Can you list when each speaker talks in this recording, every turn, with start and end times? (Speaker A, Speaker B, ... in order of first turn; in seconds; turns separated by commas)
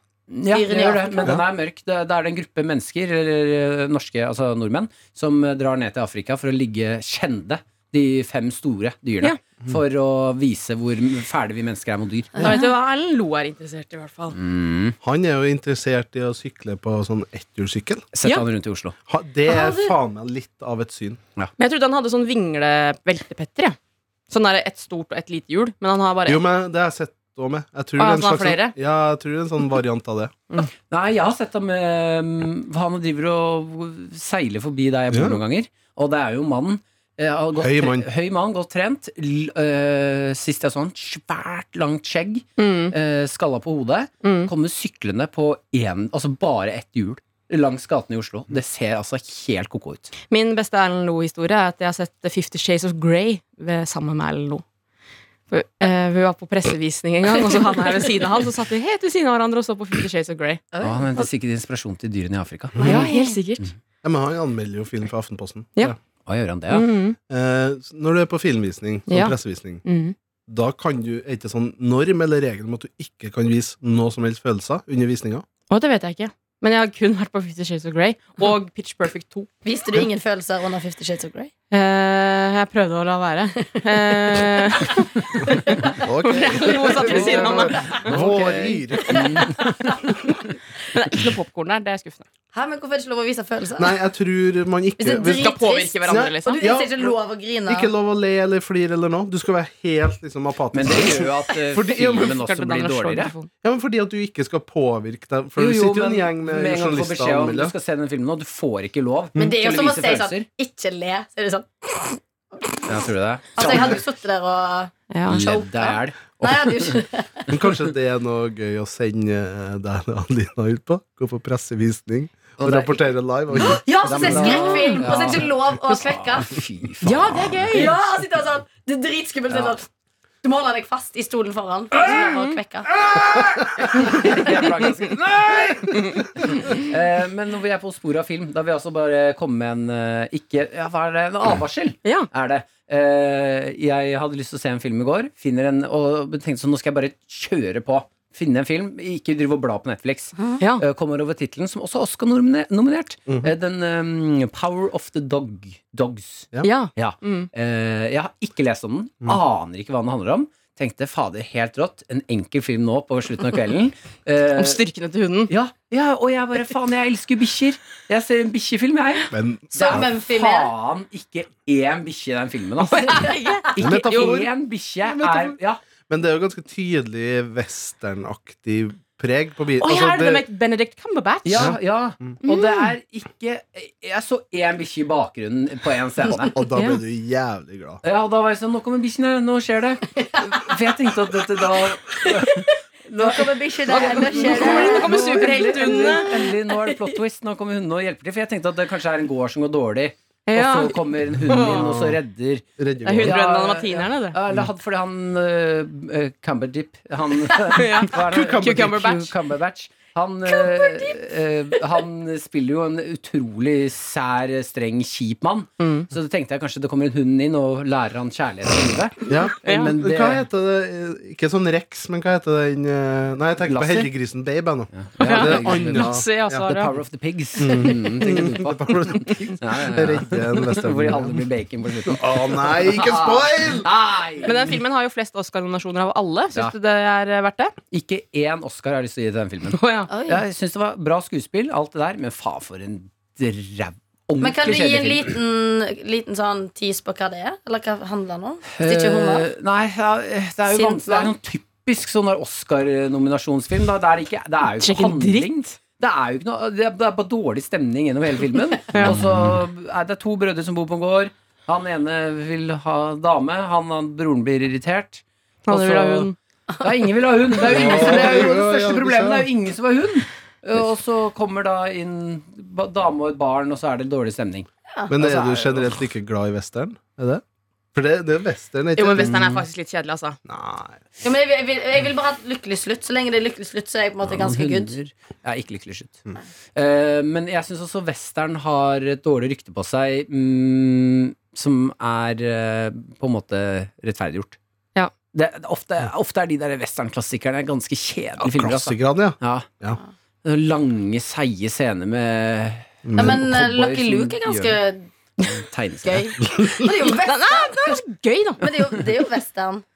Speaker A: 0.3-12.5, Speaker B: 0.5-1.3, Speaker B: 12.3-12.7, Speaker C: 12.4-14.3, Speaker A: 14.3-15.0, Speaker D: 15.0-18.1, Speaker A: 18.1-18.9, Speaker D: 19.1-21.2, Speaker B: 19.4-19.9, Speaker C: 21.6-23.8, Speaker C: 24.3-26.4, Speaker D: 26.2-30.3, Speaker C: 28.0-28.7, Speaker A: 30.9-50.1, Speaker D: 35.1-35.4, Speaker D: 37.6-38.1, Speaker C: 42.6-42.9, Speaker C: 44.2-44.5, Speaker C: 50.3-54.6, Speaker C: 55.5-60.6, Speaker B: 60.7-61.1, Speaker A: 60.8-63.1, Speaker B: 62.8-63.4, Speaker C: 62.8-63.7, Speaker D: 64.0-66.0, Speaker A: 66.2-66.9, Speaker C: 66.7-67.2, Speaker D: 67.3-69.8, Speaker C: 69.1-70.1, Speaker D: 70.5-75.4, Speaker C: 75.7-79.5, Speaker B: 79.6-81.5, Speaker C: 81.7-88.2, Speaker D: 86.0-89.4, Speaker B: 87.0-87.6, Speaker A: 87.1-90.1, Speaker B: 89.1-89.9, Speaker C: 90.9-92.2, Speaker B: 92.5-93.9, Speaker D: 93.8-95.5, Speaker B: 95.0-97.9, Speaker C: 95.2-96.6, Speaker D: 96.0-102.3, Speaker A: 100.7-103.3, Speaker C: 102.1-103.5, Speaker D: 103.6-107.7, Speaker A: 105.5-110.5, Speaker B: 109.4-112.8, Speaker A: 112.9-114.0, Speaker B: 113.5-117.5, Speaker C: 115.1-115.4, Speaker A: 115.2-116.9, Speaker D: 117.5-124.4, Speaker A: 122.6-127.9, Speaker B: 123.6-126.5, Speaker C: 124.2-125.2, Speaker C: 127.0-127.9, Speaker B: 127.7-129.9, Speaker A: 129.5-129.8, Speaker B: 130.4-132.9, Speaker A: 132.9-164.8, Speaker C: 133.9-134.6, Speaker D: 153.3-153.5, Speaker C: 156.6-157.5, Speaker C: 164.5-165.5, Speaker A: 165.5-175.8, Speaker D: 169.3-170.1, Speaker B: 169.7-170.7, Speaker C: 172.8-174.4, Speaker D: 173.8-180.4, Speaker C: 179.8-181.8, Speaker A: 181.4-186.6, Speaker D: 181.5-182.3, Speaker C: 182.4-182.8, Speaker D: 186.5-188.0, Speaker C: 186.8-187.0, Speaker A: 188.0-202.6, Speaker B: 190.2-190.6, Speaker B: 192.4-195.2, Speaker C: 193.8-196.3, Speaker B: 196.4-197.0, Speaker C: 200.5-201.9, Speaker D: 201.7-202.2, Speaker D: 202.8-203.4, Speaker C: 203.0-204.4, Speaker A: 203.2-220.4, Speaker C: 207.7-209.3, Speaker D: 208.2-208.9, Speaker C: 215.8-216.1, Speaker D: 219.3-226.6, Speaker C: 219.6-219.9, Speaker A: 223.6-224.1, Speaker A: 224.9-234.8, Speaker C: 225.2-226.9, Speaker D: 227.6-231.5, Speaker D: 232.0-233.9, Speaker C: 234.4-237.7, Speaker A: 237.9-245.3, Speaker C: 239.7-240.1, Speaker B: 240.1-240.4, Speaker B: 244.4-249.5, Speaker A: 248.7-276.0, Speaker B: 250.7-251.3, Speaker C: 254.8-255.8, Speaker C: 258.9-259.2, Speaker C: 265.7-266.3, Speaker D: 267.6-269.5, Speaker D: 275.1-277.4, Speaker D: 277.9-279.5, Speaker C: 279.0-280.4, Speaker A: 279.2-279.6, Speaker D: 280.4-281.0, Speaker B: 281.2-284.9, Speaker A: 284.2-286.2, Speaker A: 286.7-294.6, Speaker A: 295.3-299.7, Speaker D: 298.4-300.0, Speaker A: 300.4-304.8, Speaker D: 303.0-303.6, Speaker B: 303.2-305.1, Speaker A: 305.4-306.3, Speaker B: 306.0-308.0, Speaker C: 307.0-308.6, Speaker B: 308.6-309.8